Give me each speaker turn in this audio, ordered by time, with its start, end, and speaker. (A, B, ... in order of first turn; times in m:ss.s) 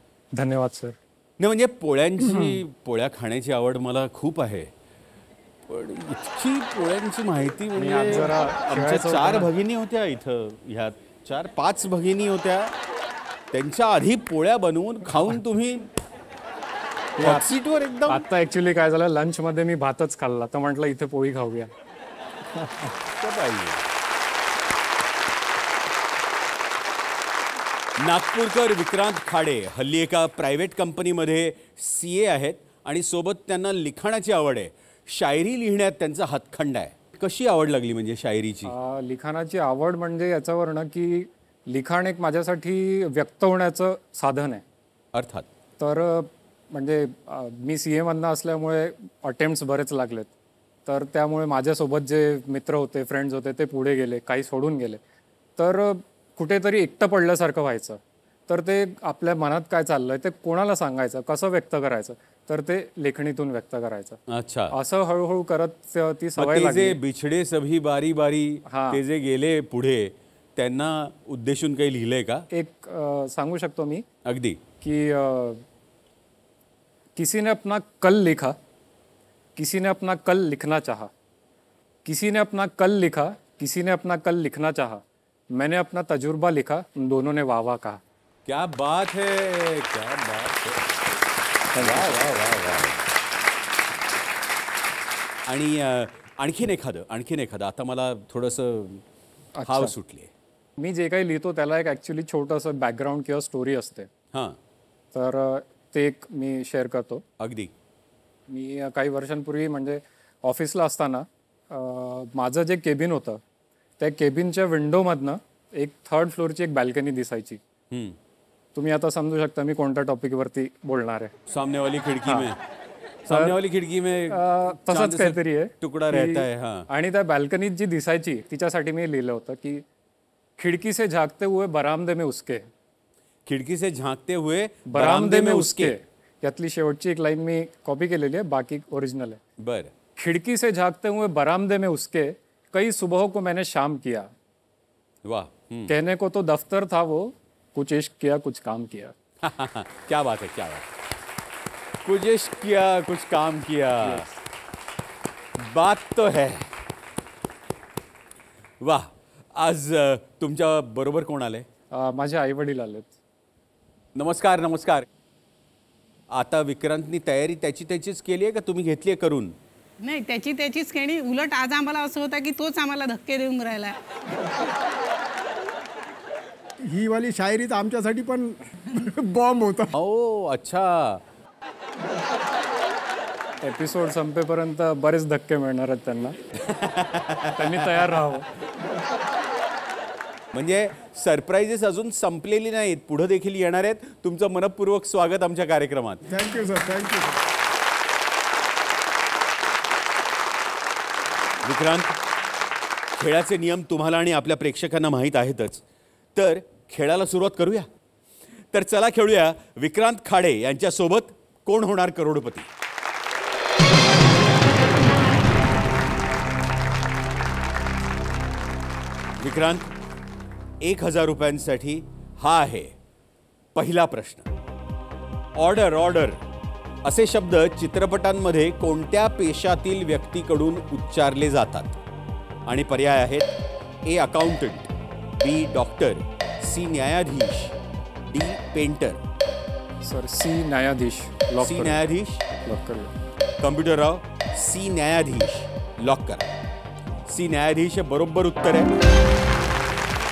0:00.4-0:01.0 A
0:01.4-0:04.7 B
0:02.2-0:02.6 A
0:05.7-0:12.7 B
0:07.8-0:09.5 A
0:13.5-0:15.9 B
0:17.2-0:21.7 A
0:17.2-0:18.2 B
0:23.0-0:23.8 B
0:28.0-0:38.7 B
0:38.6-0:44.6 A
0:45.1-0:45.5 B
0:45.8-0:50.3 A
0:50.8-0:55.0 A
0:55.6-1:07.0 A
1:04.3-1:04.7 B
1:06.4-1:12.5 B
1:08.7-1:09.0 A
1:12.5-1:14.0 A
1:14.2-1:14.6 B
1:14.8-1:15.6 A
1:17.2-1:18.6 A
1:19.6-1:21.1 A
1:22.0-1:28.0 A
1:28.4-1:30.9 B
1:31.7-1:32.2 A
1:31.8-1:33.0 B
1:35.5-1:39.0 B
1:39.6-1:39.9 A
1:39.6-1:40.3 B
1:40.8-1:44.1 A
1:44.3-1:44.6 B
1:45.1-1:47.2 A
1:47.4-1:47.7 B
1:48.5-1:53.4 A
1:54.0-1:57.6 A
1:57.9-1:58.2 B
1:58.7-2:01.3 A
2:01.5-2:02.6 B
2:03.3-2:06.9 B
2:03.3-2:03.5 A
2:04.3-2:09.8 A
2:10.6-2:12.7 A
2:13.4-2:15.9 B
2:14.9-2:19.4 A
2:19.6-2:19.9 B
2:20.2-2:24.3 A
2:25.2-2:25.9 B
2:25.9-2:29.1 A
2:29.4-2:30.9 B
2:32.0-2:34.3 B
2:35.6-2:36.7 B
2:38.8-2:41.7 B
2:41.9-2:43.1 A
2:44.1-2:45.0 B
2:46.3-2:49.6 B
2:50.0-2:54.0 C
2:56.8-2:59.9 D
2:59.9-3:01.2 B
3:03.6-3:06.4 A
3:06.6-3:08.1 B
3:07.5-3:08.5 A
3:10.5-3:16.2 B
3:16.3-3:17.4 D
3:21.6-3:22.2 B
3:23.1-3:25.8 B
3:26.3-3:27.9 B
3:28.7-3:32.7 B
3:39.4-3:39.9 B
3:40.8-3:42.9 B
3:43.7-3:44.5 B
3:45.6-3:46.4 B
3:47.0-3:52.0 B
3:52.6-3:53.5 B
3:54.0-3:57.8 B
3:58.3-3:59.2 B
4:00.0-4:02.0 A
4:01.6-4:02.4 B
4:02.6-4:03.1 A
4:03.6-4:06.5 B
4:07.3-4:08.9 B